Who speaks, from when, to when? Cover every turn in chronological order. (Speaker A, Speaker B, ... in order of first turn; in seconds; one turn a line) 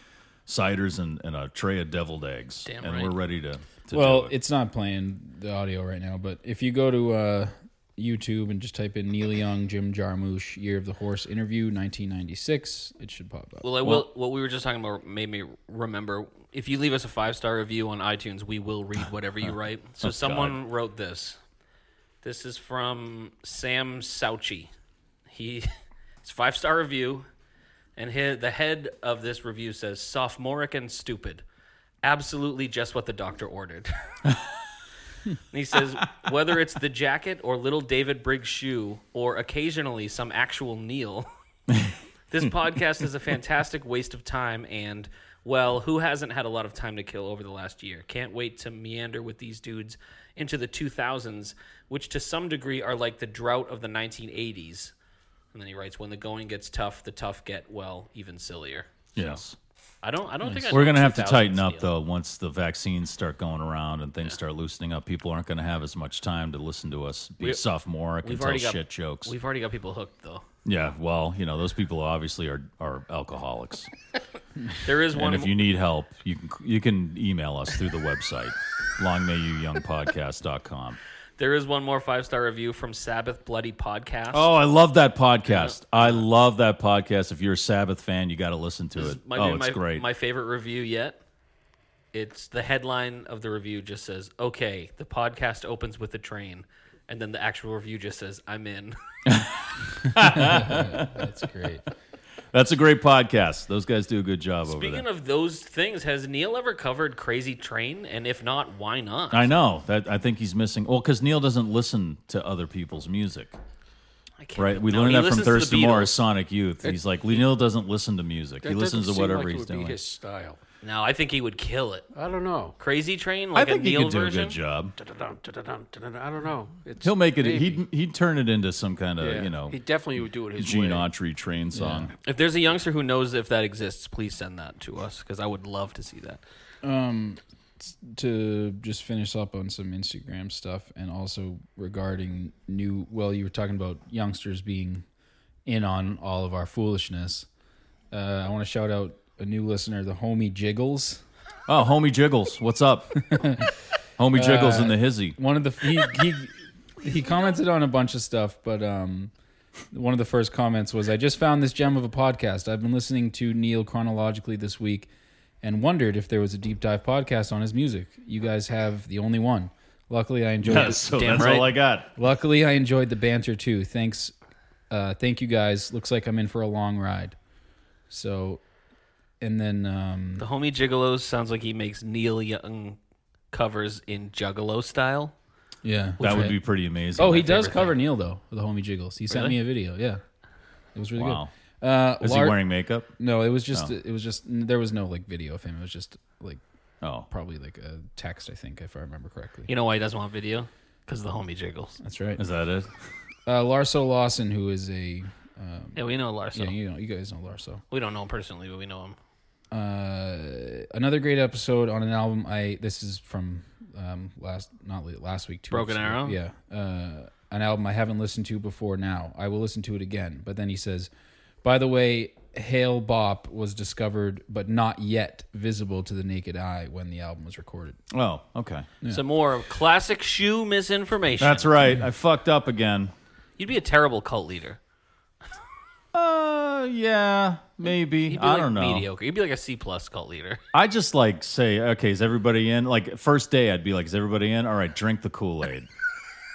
Speaker A: 0.5-4.3
Speaker B: 2.6-3.1
Speaker C: 3.9-14.1
Speaker B: 13.6-21.4
Speaker A: 20.0-20.6
Speaker B: 22.2-24.7
Speaker B: 25.3-25.7
Speaker B: 26.2-27.3
Speaker B: 27.9-31.4
Speaker B: 32.0-33.9
Speaker B: 35.5-41.3
Speaker B: 42.3-54.9
Speaker B: 55.5-59.4
Speaker A: 59.1-59.6
Speaker B: 60.0-61.9
Speaker C: 60.4-60.8
Speaker A: 60.7-69.3
Speaker B: 68.2-70.4
Speaker A: 70.6-73.9
Speaker B: 74.8-75.5
Speaker A: 75.1-81.0
Speaker B: 81.4-84.5
Speaker A: 84.3-90.0
Speaker B: 85.5-86.2
Speaker B: 89.0-91.2
Speaker B: 92.1-99.0
Speaker A: 99.3-101.3
Speaker C: 100.2-101.8
Speaker A: 102.5-105.0
Speaker B: 104.7-109.5
Speaker A: 109.3-113.6
Speaker B: 114.4-116.2
Speaker A: 114.6-120.0
Speaker D: 118.6-120.6
Speaker B: 120.8-122.1
Speaker D: 122.1-122.8
Speaker B: 122.8-124.6
Speaker A: 123.5-124.9
Speaker D: 125.0-127.8
Speaker A: 127.0-129.8
Speaker D: 129.2-131.1
Speaker A: 130.6-132.1
Speaker C: 131.7-132.1
Speaker B: 132.2-136.4
Speaker C: 136.8-145.0
Speaker C: 145.6-147.5
Speaker C: 148.1-151.2
Speaker A: 151.7-153.2
Speaker C: 153.3-153.7
Speaker A: 154.2-155.3
Speaker C: 154.3-159.3
Speaker C: 159.9-165.1
Speaker C: 165.6-171.6
Speaker A: 170.6-172.1
Speaker B: 170.7-171.7
Speaker C: 172.2-174.3
Speaker C: 174.9-177.3
Speaker C: 178.1-178.6
Speaker C: 179.4-180.4
Speaker B: 180.4-183.0
Speaker B: 183.5-185.3
Speaker C: 185.8-186.6
Speaker A: 186.2-187.5
Speaker C: 187.2-190.2
Speaker B: 187.2-187.9
Speaker C: 190.9-192.6
Speaker A: 191.2-191.5
Speaker A: 192.2-193.1
Speaker C: 193.2-196.6
Speaker A: 197.0-197.3
Speaker C: 197.3-199.7
Speaker B: 199.7-202.0
Speaker C: 202.0-202.4
Speaker A: 202.4-202.9
Speaker C: 203.4-206.0
Speaker B: 205.9-206.8
Speaker C: 206.5-207.8
Speaker B: 207.9-209.2
Speaker C: 209.7-221.1
Speaker B: 215.7-216.4
Speaker C: 221.6-228.0
Speaker A: 228.1-228.9
Speaker B: 229.1-231.8
Speaker A: 231.4-233.1
Speaker B: 233.6-234.8
Speaker A: 236.1-239.0
Speaker B: 238.3-240.6
Speaker A: 240.7-245.9